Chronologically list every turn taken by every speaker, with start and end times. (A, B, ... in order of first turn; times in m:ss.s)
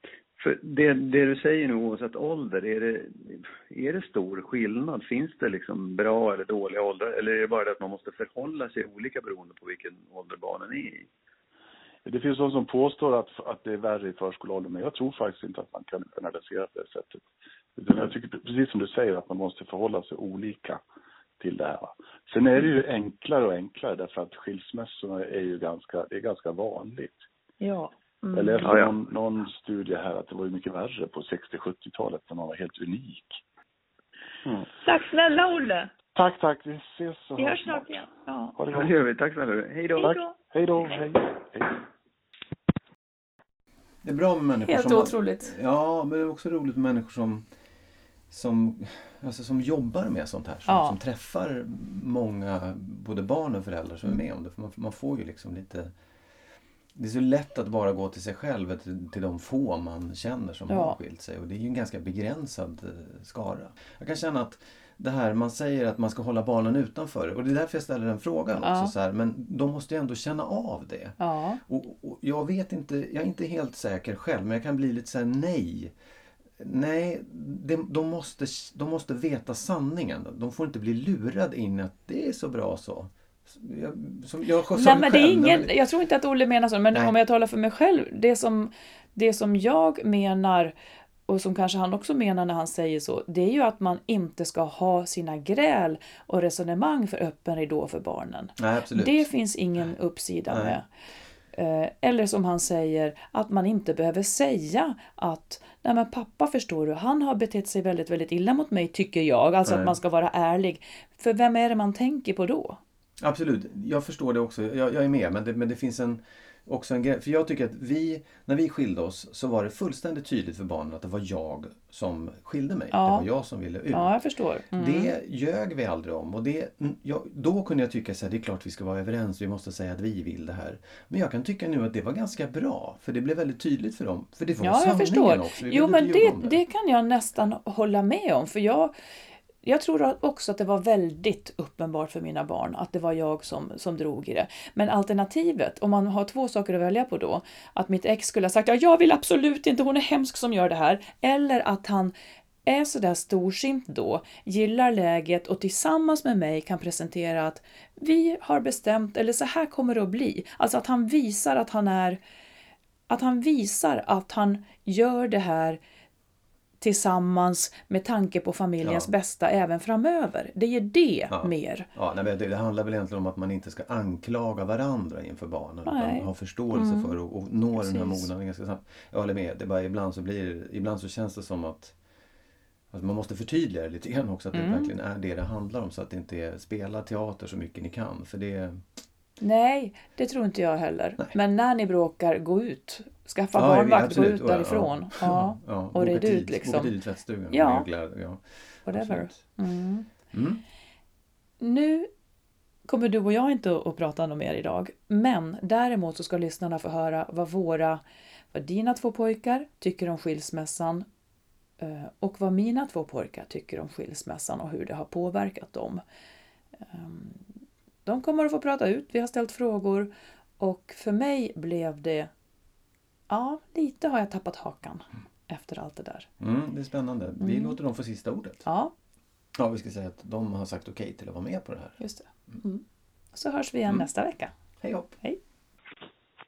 0:00.4-0:11.1 A
0:12.0-0:20.8 B
0:21.4-0:27.2 B
0:27.6-0:28.7 C
0:28.3-0:33.4 B
0:28.6-0:28.9 A
0:34.8-0:35.9 C
0:36.1-0:38.0 B
0:37.4-0:38.6 C
0:38.6-0:38.9 B
0:38.7-0:40.1 A
0:40.0-0:40.4 C
0:40.0-0:41.8 B
0:44.0-0:47.5 D
0:44.6-0:45.5 E
0:48.3-0:55.9 D
0:50.6-0:51.0 E
0:56.9-1:15.9 D
1:00.7-1:01.0 E
1:08.6-1:08.9 E
1:11.2-1:11.6 E
1:16.6-1:25.7 D
1:24.7-1:30.7 E
1:31.3-1:40.8 E
1:38.6-1:39.3 D
1:40.5-1:40.8 D
1:41.5-1:52.8 E
1:49.6-1:49.9 D
1:53.2-2:04.1 D
2:02.9-2:03.3 E
2:03.9-2:05.1 E
2:04.7-2:16.6 D
2:14.6-2:18.9 E
2:19.6-2:32.1 E
2:32.6-2:42.2 E
2:43.1-2:45.8 E
2:46.8-2:51.9 E
2:48.8-2:49.1 D
2:51.3-3:02.0 D
2:55.8-2:57.2 E
2:57.7-2:58.3 E
3:02.9-3:08.8 D
3:04.5-3:04.9 E
3:09.4-3:16.9 E
3:13.5-3:19.4 D
3:17.5-3:17.9 E
3:18.8-3:20.1 E
3:20.3-3:20.6 D
3:21.6-3:22.1 E
3:22.9-3:28.0 E
3:28.5-3:31.1 E
3:31.8-3:36.0 E
3:36.9-3:37.5 E
3:38.0-3:42.3 E
3:43.3-3:46.3 E
3:46.4-3:48.6 D
3:47.4-3:47.8 E
3:48.6-3:48.9 E
3:49.5-3:52.6 D
3:52.0-3:54.5 E
3:54.8-3:55.1 D